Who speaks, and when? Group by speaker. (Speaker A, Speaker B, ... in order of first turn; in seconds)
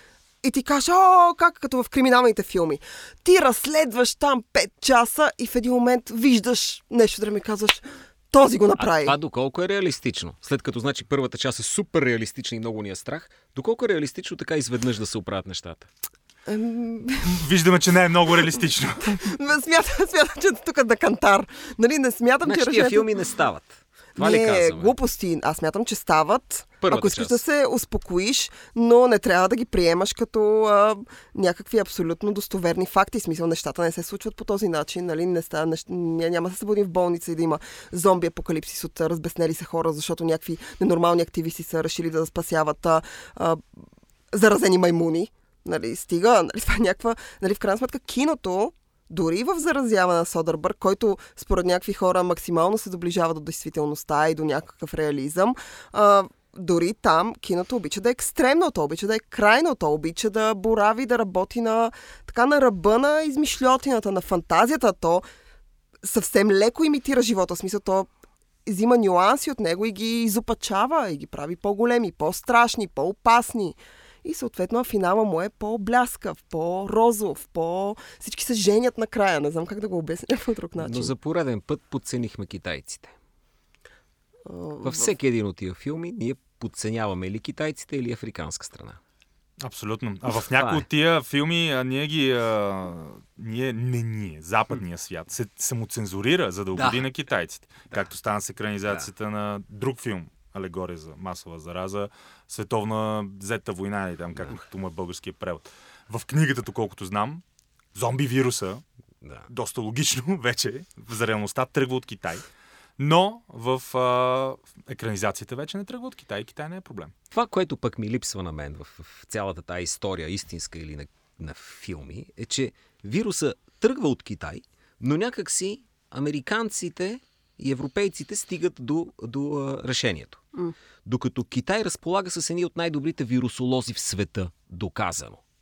Speaker A: 0.4-9.2, 16.5-17.4, 19.1-23.2, 24.2-43.6, 44.3-65.2, 66.0-68.1, 68.7-81.1, 84.5-85.1
Speaker B: 8.8-15.9, 22.4-24.9, 26.8-27.4, 80.8-83.2, 84.8-89.0, 90.4-90.9, 96.8-97.0, 117.3-130.4, 131.1-135.4
Speaker C: 17.2-19.2, 89.6-107.4, 108.0-108.8, 109.5-112.5, 113.0-117.1